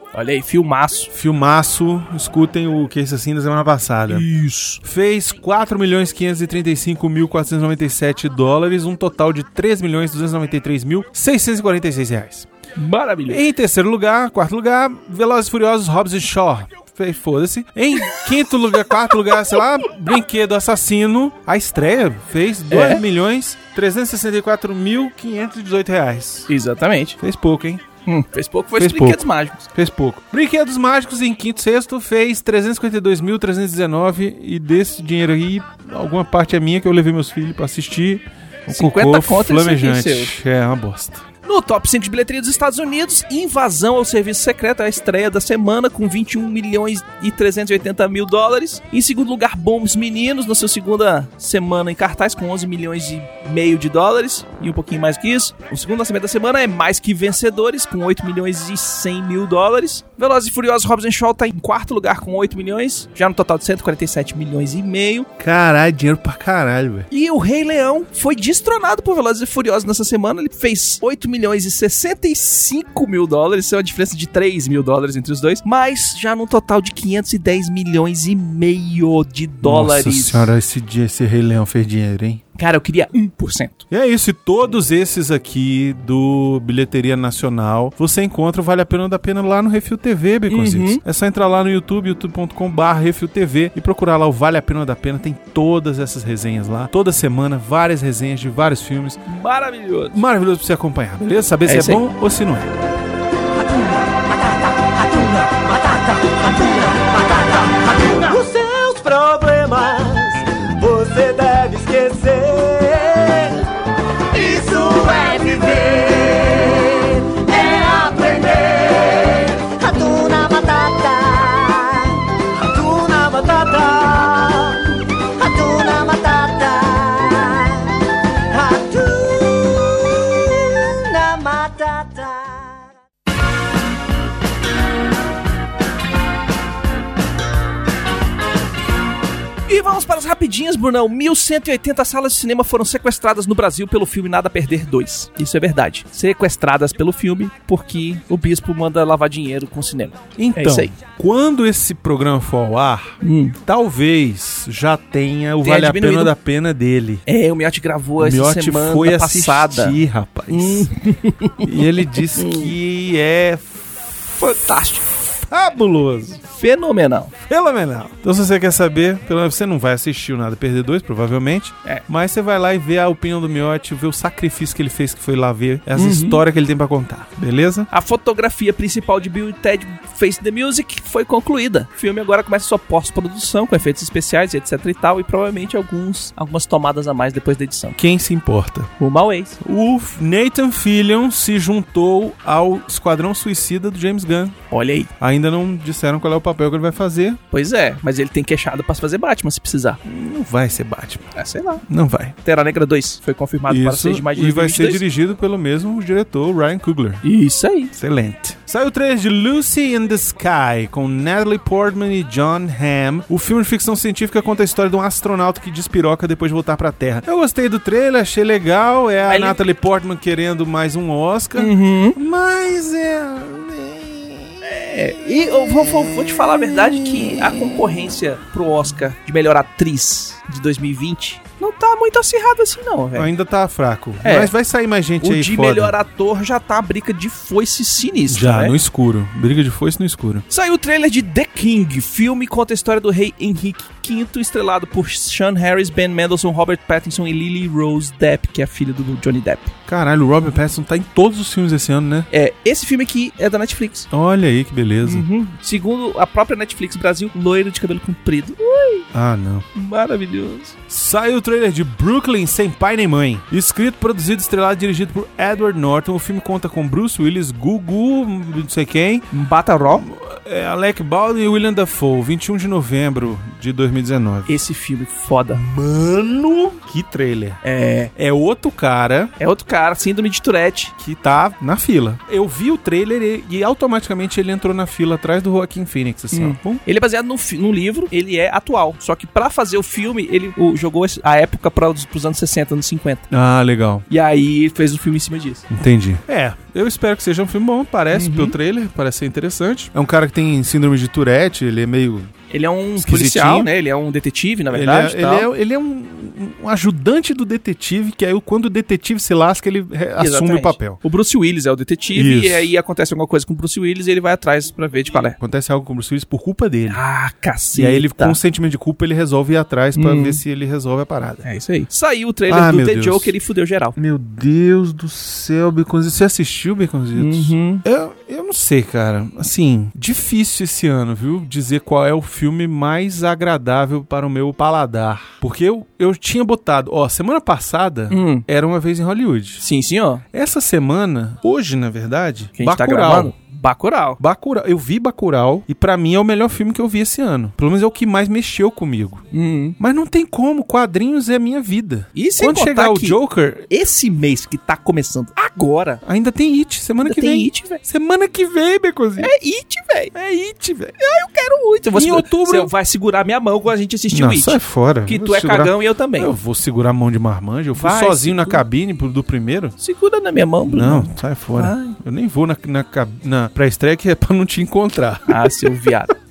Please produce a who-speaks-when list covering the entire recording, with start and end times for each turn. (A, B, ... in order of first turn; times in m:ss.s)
0:00.1-0:01.1 A
0:01.1-0:04.3 B
0:04.1-0:04.8 A
0:04.8-0:12.5 B
0:12.8-0:13.4 A
0:13.3-0:26.5 B
0:22.7-0:23.0 A
0:26.5-0:27.2 A
0:27.2-0:27.8 B
0:28.1-0:29.7 A
0:28.8-0:41.2 B
0:38.7-0:40.3 A
0:41.5-1:05.3 A
1:05.4-1:07.1 B
1:07.1-1:20.5 A
1:19.6-1:22.4 B
1:22.6-1:23.9 A
1:23.9-1:39.2 B
1:30.5-1:31.0 A
1:39.3-1:40.2 A
1:40.1-1:42.7 B
1:41.6-1:42.0 A
1:43.6-1:53.6 C
1:54.3-2:04.8 C
2:05.4-2:12.8 C
2:19.7-2:31.0 A
2:30.4-2:37.2 B
2:33.2-2:33.6 A
2:35.6-2:36.3 A
2:37.3-2:40.0 A
2:38.2-2:41.0 B
2:40.5-2:41.7 A
2:41.6-2:44.0 B
2:42.4-2:42.7 A
2:44.4-2:45.0 A
2:45.1-2:46.4 B
2:46.5-2:47.3 A
2:47.4-2:57.9 B
2:56.0-2:56.4 A
2:57.9-3:08.0 A
3:08.0-3:08.9 B
3:09.0-3:09.6 A
3:09.6-3:14.6 B
3:14.7-3:15.1 A
3:15.2-3:17.4 B
3:17.5-3:20.0 A
3:20.0-3:21.3 B
3:21.4-3:21.8 A
3:21.9-3:22.4 B
3:22.4-3:25.0 A
3:23.7-3:27.2 B
3:27.2-3:27.9 A
3:27.9-3:44.6 B
3:39.3-3:39.6 A
3:41.6-3:42.2 A
3:44.6-3:53.3 A
3:45.8-3:47.8 B
3:53.2-3:56.0 B
3:54.2-3:54.5 A
3:55.2-3:58.8 A
3:58.3-4:00.4 B
4:00.5-4:09.7 A
4:09.9-4:12.3 B
4:12.3-4:14.1 A
4:14.1-4:15.3 B
4:15.0-4:19.1 A
4:19.1-4:19.7 B
4:19.8-4:20.8 A
4:20.9-4:29.3 B
4:29.3-4:30.1 A
4:29.9-4:34.6 B
4:34.5-4:35.6 A
4:35.5-4:37.6 B
4:37.6-4:38.1 A
4:38.2-4:39.3 B
4:39.4-4:40.9 A
4:41.0-4:46.8 B
4:46.3-4:53.3 A
4:53.3-4:54.0 B
4:54.1-4:55.7 A
4:55.7-5:02.3 B
4:58.1-4:58.6 A
5:02.5-5:05.5 A
5:03.0-5:03.7 B
5:04.7-5:11.0 B
5:10.2-5:15.4 A
5:12.1-5:12.7 B
5:15.4-5:17.0 B
5:16.9-5:18.4 A
5:17.7-5:21.5 B
5:20.0-5:20.4 A
5:21.4-5:24.0 A
5:22.5-5:23.3 B
5:24.0-5:39.6 B
5:27.2-5:27.8 A
5:38.1-5:38.5 A
5:39.6-5:40.2 A
5:40.3-5:43.3 B
5:42.6-5:44.2 A
5:44.2-5:49.2 B
5:49.3-5:49.8 A
5:49.8-5:53.7 B
5:52.2-5:53.2 A
5:53.7-5:56.0 A
5:56.0-5:59.3 B
5:57.0-5:57.8 A
5:59.2-6:00.1 A
6:00.1-6:01.0 B
6:01.0-6:06.3 A
6:01.9-6:02.7 B
6:04.1-6:09.8 B
6:07.8-6:08.6 A
6:09.8-6:12.0 A
6:10.7-6:15.7 B
6:15.3-6:16.1 A